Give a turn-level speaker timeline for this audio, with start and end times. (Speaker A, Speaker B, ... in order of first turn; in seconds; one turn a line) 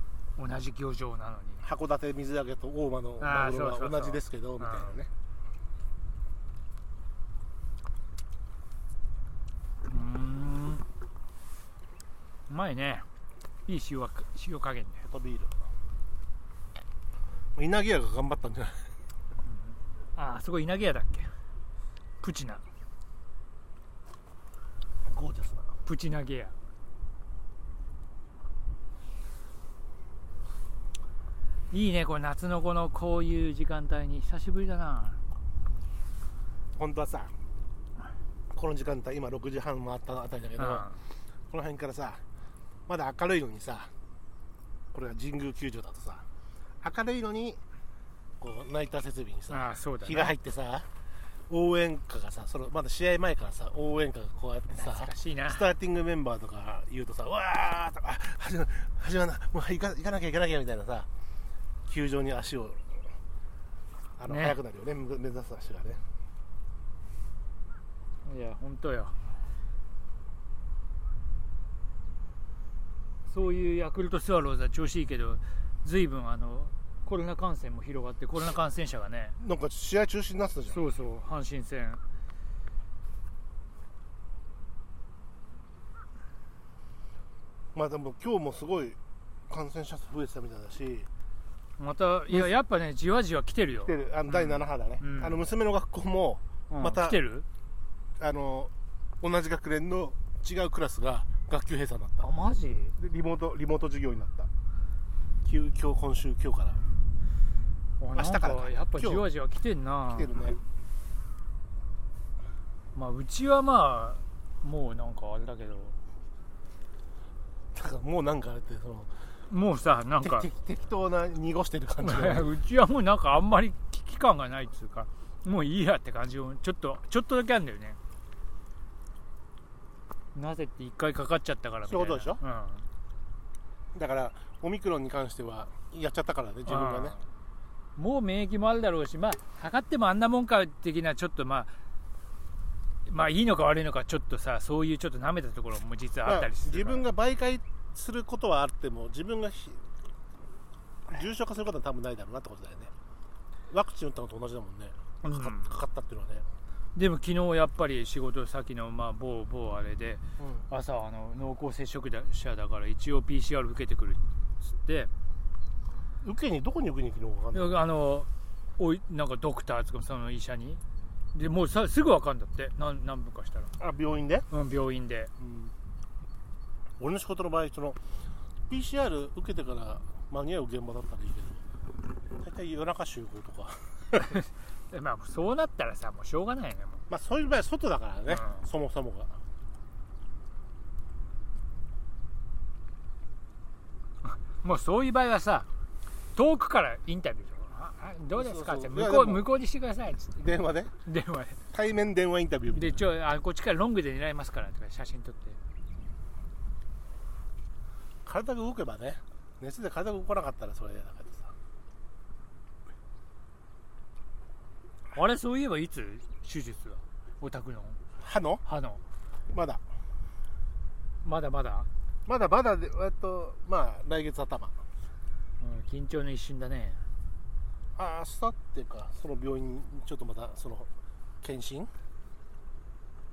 Speaker A: 0.4-1.6
Speaker B: 1.6-5.1
Speaker A: 3.2-5.0
Speaker A: 9.9-10.8
Speaker A: 12.5-13.1
Speaker A: 13.7-15.0
Speaker B: 15.0-15.5
Speaker B: 17.6-18.9
Speaker A: 19.4-21.3
Speaker A: 22.2-22.6
Speaker B: 25.0-25.7
Speaker A: 25.8-26.5
Speaker A: 31.7-35.2
Speaker B: 36.8-37.3
Speaker B: 38.5-40.9
Speaker A: 40.6-41.0
Speaker B: 41.5-42.2
Speaker B: 42.9-43.9
Speaker B: 44.9-46.2
Speaker B: 46.8-47.6
Speaker B: 48.4-50.9
Speaker A: 49.5-50.3
Speaker B: 51.5-61.1
Speaker A: 54.7-55.6
Speaker B: 61.9-63.1
Speaker B: 64.2-66.0
Speaker A: 64.3-64.6
Speaker A: 68.2-69.2
Speaker A: 73.2-79.4
Speaker B: 79.4-80.8
Speaker A: 80.7-82.0
Speaker B: 87.7-89.0
Speaker B: 89.5-91.1
Speaker A: 91.8-95.4
Speaker B: 93.8-97.2
Speaker A: 96.7-97.5
Speaker B: 98.2-102.3
Speaker A: 102.2-102.9
Speaker B: 103.0-104.5
Speaker B: 105.4-106.8
Speaker A: 108.0-110.3
Speaker B: 108.1-109.3
Speaker B: 110.1-110.6
Speaker A: 112.9-115.9
Speaker B: 117.7-119.2
Speaker A: 119.5-120.5
Speaker B: 120.2-122.5
Speaker A: 122.0-128.0
Speaker A: 130.3-132.8
Speaker B: 131.8-132.4
Speaker B: 133.9-137.2
Speaker A: 136.7-137.2
Speaker A: 137.9-141.7
Speaker A: 143.1-147.1
Speaker B: 146.2-149.8
Speaker B: 151.1-152.9
Speaker B: 153.7-156.4
Speaker A: 155.2-155.7
Speaker A: 156.9-165.1
Speaker B: 160.4-160.6
Speaker B: 166.2-167.8
Speaker A: 167.5-170.8
Speaker A: 171.3-173.7
Speaker B: 173.8-174.5
Speaker A: 174.5-175.3
Speaker B: 175.4-175.7
Speaker B: 177.0-178.0
Speaker B: 178.7-181.6
Speaker B: 182.4-184.4
Speaker A: 184.3-187.0
Speaker B: 187.1-189.3
Speaker A: 188.3-188.7
Speaker A: 194.2-195.7
Speaker A: 196.3-200.4
Speaker B: 198.3-199.5
Speaker B: 200.4-200.9
Speaker A: 201.0-201.6
Speaker B: 201.7-203.0
Speaker A: 202.7-205.6
Speaker B: 208.2-211.5
Speaker A: 215.1-218.0
Speaker B: 218.2-218.6
Speaker A: 218.7-219.0
Speaker B: 219.5-219.8
Speaker A: 221.2-221.9
Speaker B: 222.2-224.7
Speaker A: 225.6-227.0
Speaker B: 227.9-230.9
Speaker B: 231.4-231.9